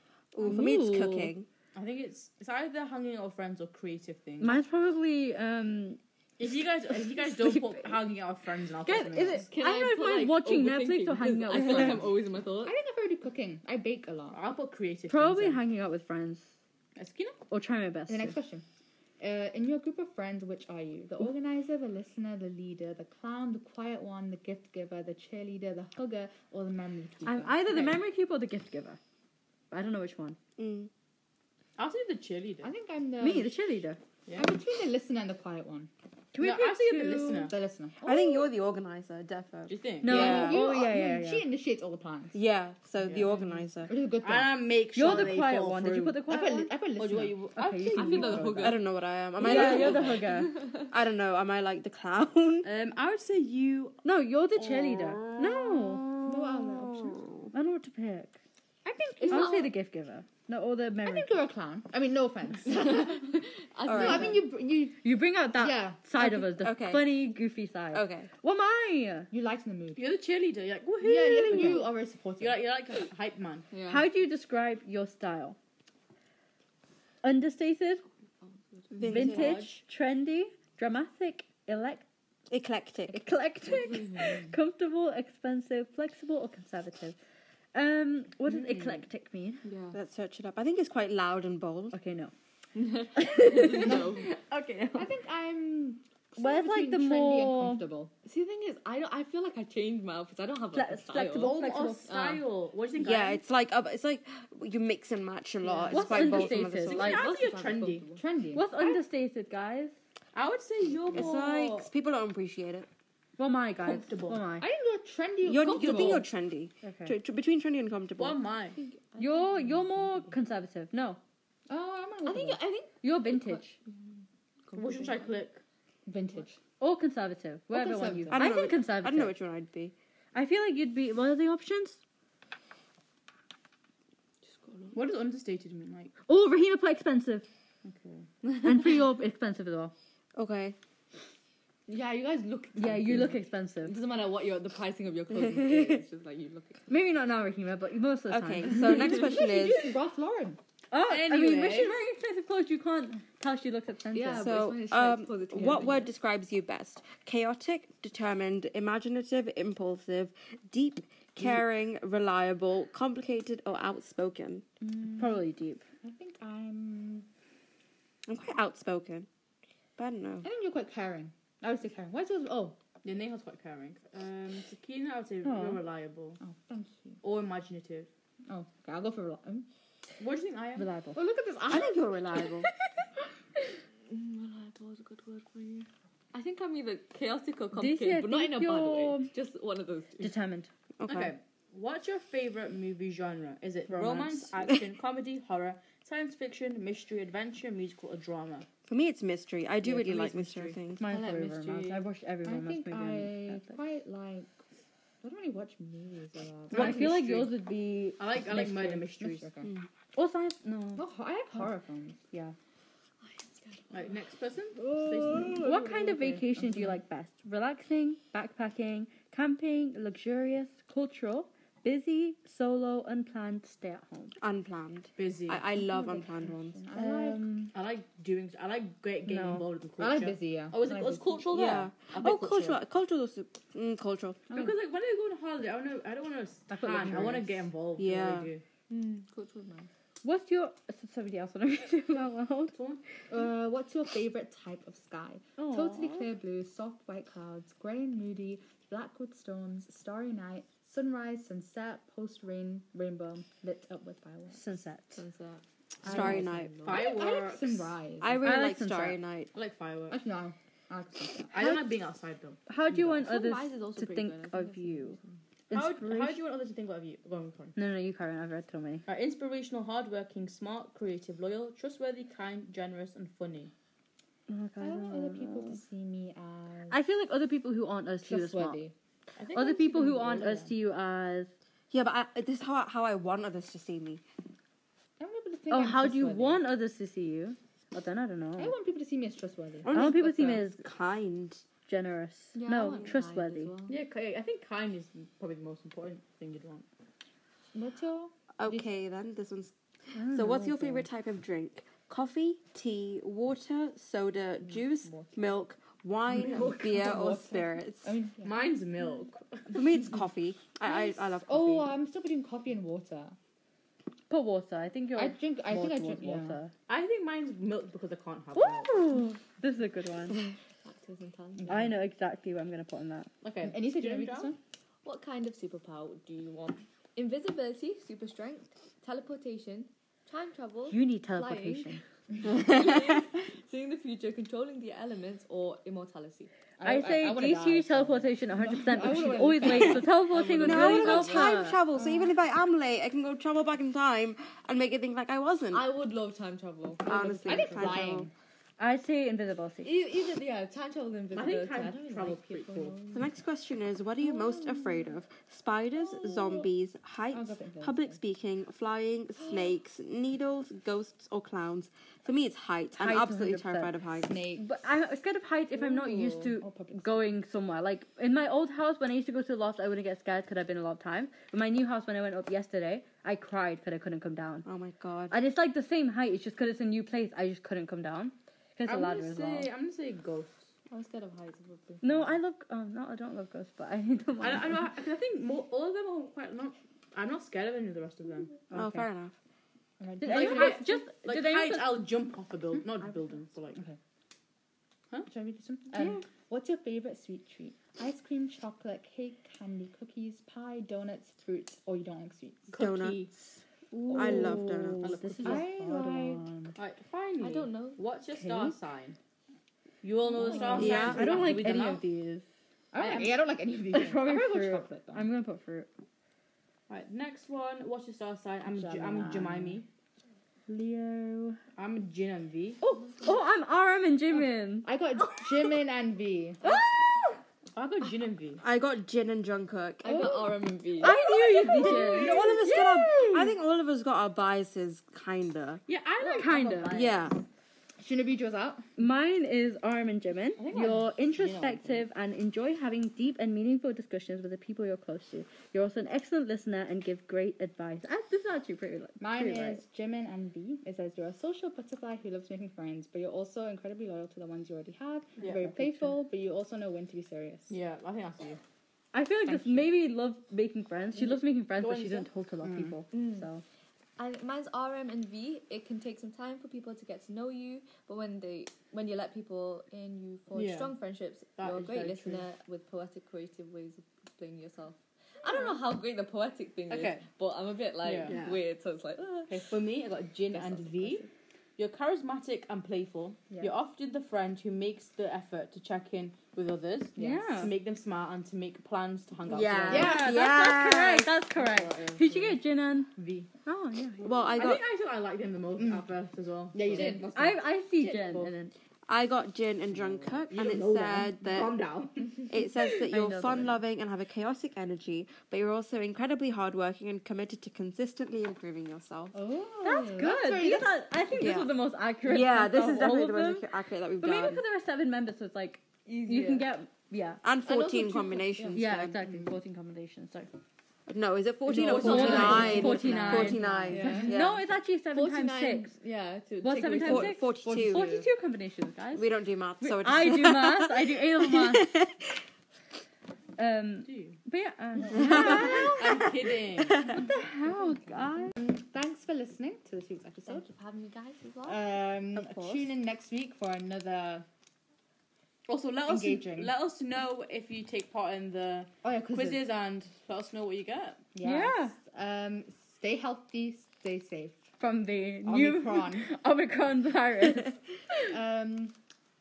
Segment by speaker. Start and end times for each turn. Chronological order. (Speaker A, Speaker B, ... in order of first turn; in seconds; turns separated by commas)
Speaker A: 0.3-1.5, Speaker B: 0.4-1.3, Speaker C: 1.7-4.6, Speaker B: 4.4-8.0, Speaker C: 6.4-9.5, Speaker B: 8.8-12.1, Speaker D: 9.4-12.7, Speaker E: 12.6-14.4, Speaker C: 14.3-15.6, Speaker B: 15.1-16.5, Speaker C: 16.9-17.4, Speaker B: 17.5-18.4, Speaker E: 18.1-18.6, Speaker E: 19.2-28.0, Speaker B: 27.2-29.0, Speaker B: 29.7-30.4, Speaker A: 30.6-30.9, Speaker C: 31.8-32.7, Speaker E: 32.6-33.5, Speaker B: 33.2-34.0, Speaker C: 34.2-34.5, Speaker E: 34.4-35.9, Speaker B: 36.3-37.5, Speaker C: 36.4-37.5, Speaker E: 37.5-38.0, Speaker A: 38.0-40.6, Speaker C: 39.7-40.5, Speaker B: 40.0-41.5, Speaker E: 40.1-42.4, Speaker A: 42.3-43.9, Speaker C: 43.0-43.6, Speaker E: 43.9-45.3, Speaker C: 44.2-46.3, Speaker B: 44.9-46.7, Speaker E: 46.3-47.4, Speaker C: 47.0-48.8, Speaker B: 47.6-48.6, Speaker D: 47.9-48.8, Speaker A: 48.6-52.7, Speaker B: 49.4-50.5, Speaker C: 49.4-50.2, Speaker D: 50.3-50.8, Speaker C: 52.6-54.0, Speaker B: 54.0-56.0, Speaker A: 54.6-57.5, Speaker C: 54.8-55.2, Speaker E: 56.2-57.2, Speaker B: 57.5-58.4, Speaker E: 58.8-59.7, Speaker D: 59.2-59.7, Speaker B: 59.3-61.4, Speaker E: 61.0-63.3, Speaker D: 62.7-64.4, Speaker A: 63.9-64.3, Speaker E: 63.9-66.0, Speaker B: 65.0-69.3, Speaker A: 66.2-67.2, Speaker A: 67.9-68.3, Speaker E: 69.3-70.1, Speaker C: 70.0-73.7, Speaker E: 71.0-72.6, Speaker D: 73.7-74.0, Speaker B: 73.8-75.6, Speaker B: 77.2-78.0, Speaker D: 78.4-78.8, Speaker C: 78.9-79.7, Speaker A: 79.0-79.7, Speaker B: 79.0-82.0, Speaker A: 82.5-83.2, Speaker B: 83.1-87.2, Speaker D: 83.7-84.4, Speaker B: 87.7-89.6, Speaker D: 89.6-90.0, Speaker A: 89.9-92.0, Speaker B: 91.9-92.3, Speaker D: 92.7-94.3, Speaker B: 93.2-95.1, Speaker E: 93.8-94.2, Speaker E: 94.9-98.1, Speaker B: 96.4-97.8, Speaker D: 98.2-101.5, Speaker B: 100.7-102.1, Speaker C: 101.2-103.4, Speaker D: 102.0-102.4, Speaker A: 102.9-107.1, Speaker E: 105.6-106.2, Speaker B: 105.9-107.3, Speaker C: 106.2-108.1, Speaker D: 107.1-108.2, Speaker E: 108.1-108.7, Speaker B: 108.5-109.9, Speaker C: 110.3-111.9, Speaker A: 111.1-112.9, Speaker B: 113.4-114.7, Speaker C: 113.8-114.4, Speaker E: 114.6-116.2, Speaker A: 115.4-118.4, Speaker D: 115.6-116.2, Speaker B: 116.8-117.1, Speaker C: 118.2-118.8, Speaker D: 118.8-120.0, Speaker B: 119.2-121.2, Speaker E: 121.7-122.6, Speaker D: 122.2-123.6, Speaker B: 123.0-123.8, Speaker D: 124.7-125.4, Speaker C: 124.7-125.6, Speaker E: 126.0-126.6, Speaker B: 126.8-129.3, Speaker E: 127.7-128.4, Speaker A: 128.3-129.9, Speaker B: 130.3-132.0, Speaker D: 134.4-135.0, Speaker C: 134.9-136.1, Speaker B: 136.3-137.5, Speaker C: 137.8-138.5, Speaker B: 138.6-139.9, Speaker A: 140.3-140.8, Speaker D: 141.9-147.1, Speaker B: 142.8-143.9, Speaker A: 145.4-146.0, Speaker B: 146.9-149.2, Speaker A: 148.3-149.9, Speaker E: 149.0-150.6, Speaker B: 150.9-154.5, Speaker C: 151.1-151.9, Speaker D: 154.1-156.1, Speaker A: 154.3-164.6, Speaker E: 164.8-165.4, Speaker B: 165.2-165.8, Speaker E: 166.0-167.3, Speaker A: 168.3-169.3, Speaker A: 170.0-170.5, Speaker E: 170.4-172.8, Speaker C: 173.0-176.4, Speaker B: 175.4-175.8, Speaker E: 176.4-177.2, Speaker C: 177.2-178.1, Speaker E: 178.5-179.7, Speaker C: 180.2-180.9, Speaker B: 180.8-181.2, Speaker E: 181.1-182.6, Speaker A: 181.7-182.7, Speaker D: 184.1-190.3, Speaker B: 187.7-189.3, Speaker B: 190.2-190.7, Speaker A: 191.0-191.3, Speaker C: 191.1-198.7, Speaker E: 193.9-194.5, Speaker A: 198.8-201.0, Speaker C: 199.8-200.8, Speaker B: 201.0-203.8, Speaker D: 201.0-202.1, Speaker E: 202.4-204.6, Speaker E: 205.2-207.1, Speaker C: 206.7-207.5, Speaker B: 206.7-209.1, Speaker C: 208.2-209.5, Speaker E: 209.1-209.7, Speaker B: 210.2-211.0, Speaker E: 210.9-212.2, Speaker D: 213.2-214.2, Speaker C: 213.9-215.7, Speaker D: 215.0-215.8, Speaker B: 215.5-224.3, Speaker E: 215.9-217.0, Speaker A: 224.4-226.8, Speaker C: 225.2-225.7, Speaker E: 225.9-227.5, Speaker B: 226.9-227.7, Speaker C: 227.7-232.8, Speaker B: 229.3-229.7, Speaker E: 230.0-231.5, Speaker A: 231.5-234.5, Speaker C: 234.5-238.6, Speaker B: 236.7-237.6, Speaker A: 238.0-238.5, Speaker D: 238.9-239.9, Speaker B: 240.2-242.7, Speaker C: 242.7-243.0, Speaker E: 243.3-254.6, Speaker B: 245.6-246.3, Speaker B: 254.5-255.2, Speaker D: 255.1-257.1, Speaker A: 256.0-256.8, Speaker E: 256.0-258.4, Speaker C: 256.8-257.9, Speaker A: 258.2-259.5, Speaker B: 258.4-259.2, Speaker C: 259.5-260.2, Speaker E: 260.1-261.7, Speaker C: 261.5-263.3, Speaker B: 262.7-265.2, Speaker D: 263.2-265.4, Speaker B: 265.7-266.4, Speaker C: 265.7-267.8, Speaker B: 267.8-269.1, Speaker C: 269.1-273.7, Speaker B: 274.5-275.8, Speaker E: 274.8-277.0, Speaker B: 276.9-278.8, Speaker E: 278.2-278.9, Speaker C: 279.4-280.7, Speaker B: 279.5-281.5, Speaker A: 281.9-284.2, Speaker E: 285.2-286.6, Speaker B: 285.7-288.7, Speaker E: 288.6-290.6, Speaker A: 289.8-291.6, Speaker B: 289.9-290.8, Speaker B: 291.9-293.7, Speaker D: 292.5-294.0, Speaker C: 293.9-296.9, Speaker E: 297.7-298.9, Speaker A: 298.6-308.1, Speaker B: 300.1-301.1, Speaker E: 304.7-305.3, Speaker E: 306.4-307.5, Speaker C: 306.5-307.1, Speaker E: 308.0-308.5, Speaker C: 308.4-309.8, Speaker A: 309.7-311.9, Speaker E: 310.9-313.4, Speaker B: 314.3-316.7, Speaker E: 315.1-316.6, Speaker C: 316.9-318.9, Speaker B: 318.5-320.4, Speaker D: 320.8-321.8, Speaker B: 321.7-323.3, Speaker C: 323.4-324.5, Speaker E: 323.6-324.6, Speaker D: 325.0-336.5, Speaker B: 330.9-332.0, Speaker A: 332.4-333.2, Speaker E: 336.8-340.1, Speaker B: 336.8-341.8, Speaker D: 339.6-341.7, Speaker A: 340.6-345.8, Speaker E: 341.9-342.3, Speaker D: 345.7-348.1, Speaker A: 347.1-348.3, Speaker E: 347.4-348.3, Speaker B: 348.8-349.9, Speaker D: 349.8-353.3, Speaker C: 351.3-353.0, Speaker A: 353.1-364.3, Speaker D: 354.3-355.0, Speaker D: 356.0-356.6, Speaker E: 357.3-358.2, Speaker D: 359.4-359.7, Speaker B: 363.0-363.9, Speaker E: 364.2-364.6, Speaker B: 364.6-374.6, Speaker E: 365.8-367.2, Speaker A: 374.6-375.4, Speaker B: 375.3-379.7, Speaker C: 378.9-380.7, Speaker D: 380.9-382.4, Speaker B: 382.0-384.9, Speaker C: 384.4-388.6, Speaker B: 388.7-389.1, Speaker A: 388.7-389.3, Speaker E: 390.0-390.8, Speaker B: 390.2-392.0, Speaker C: 390.2-393.9, Speaker E: 395.3-402.7, Speaker B: 396.0-396.2, Speaker C: 402.7-403.3, Speaker A: 402.8-403.3, Speaker B: 403.9-406.5, Speaker E: 404.1-404.6, Speaker A: 404.1-405.2, Speaker C: 405.0-405.7, Speaker E: 405.4-406.7, Speaker C: 406.8-409.2, Speaker D: 407.4-408.0, Speaker B: 408.3-408.8, Speaker C: 410.0-412.1, Speaker B: 410.3-412.4, Speaker E: 410.4-411.2, Speaker A: 410.8-411.5, Speaker E: 412.9-415.3, Speaker C: 413.0-413.3, Speaker B: 413.9-415.9, Speaker C: 416.9-419.9, Speaker E: 418.6-419.8, Speaker B: 420.7-421.6, Speaker C: 421.8-422.8, Speaker B: 422.8-425.7, Speaker E: 424.8-426.6, Speaker B: 426.6-427.4, Speaker C: 427.7-428.6, Speaker A: 428.6-430.3, Speaker D: 430.0-431.2, Speaker E: 430.1-430.6, Speaker B: 431.0-433.6, Speaker A: 431.0-435.8, Speaker C: 431.7-432.7, Speaker C: 435.9-437.3, Speaker B: 436.3-437.1, Speaker A: 436.9-437.4, Speaker E: 438.0-438.9, Speaker B: 439.0-449.8, Speaker C: 440.6-442.0, Speaker E: 449.2-457.7, Speaker C: 455.4-455.8, Speaker B: 455.5-456.1, Speaker C: 457.7-458.6, Speaker B: 459.1-463.6, Speaker C: 461.2-462.3, Speaker E: 462.6-462.9, Speaker D: 463.1-463.5, Speaker D: 464.2-479.8, Speaker C: 470.5-470.9, Speaker C: 471.6-472.4, Speaker C: 476.9-477.2, Speaker C: 478.0-478.6, Speaker C: 479.5-490.5, Speaker B: 487.2-487.7, Speaker A: 489.4-491.3, Speaker B: 489.9-493.1, Speaker E: 489.9-490.2, Speaker C: 491.5-492.6, Speaker C: 493.1-493.5, Speaker B: 493.6-494.6, Speaker A: 494.2-494.8, Speaker C: 494.6-498.5, Speaker E: 496.7-497.6, Speaker B: 496.9-498.7, Speaker A: 499.1-501.8, Speaker C: 499.9-502.8, Speaker A: 502.5-509.4, Speaker B: 503.1-503.8, Speaker E: 509.3-511.1, Speaker B: 509.8-513.6, Speaker A: 511.4-514.6, Speaker B: 514.2-517.4, Speaker D: 516.0-516.7, Speaker A: 517.4-519.2, Speaker D: 517.6-518.8, Speaker B: 518.7-520.5, Speaker A: 521.1-524.6, Speaker B: 521.7-525.9, Speaker D: 521.8-522.9, Speaker C: 521.8-522.8, Speaker E: 521.9-524.4, Speaker D: 523.9-524.3, Speaker D: 525.1-527.4, Speaker B: 526.6-529.3, Speaker A: 527.0-528.2, Speaker A: 529.1-532.3, Speaker B: 529.8-531.9, Speaker B: 533.6-536.0, Speaker C: 534.0-534.4, Speaker A: 535.1-537.2, Speaker C: 535.3-537.1, Speaker B: 537.0-538.5, Speaker E: 538.5-540.6, Speaker D: 540.5-541.9, Speaker E: 541.6-544.5, Speaker C: 545.7-551.3, Speaker E: 546.1-546.7, Speaker E: 549.0-549.6, Speaker E: 551.3-554.7, Speaker B: 551.4-551.9, Speaker B: 554.8-557.8, Speaker E: 555.4-556.3, Speaker E: 558.3-558.9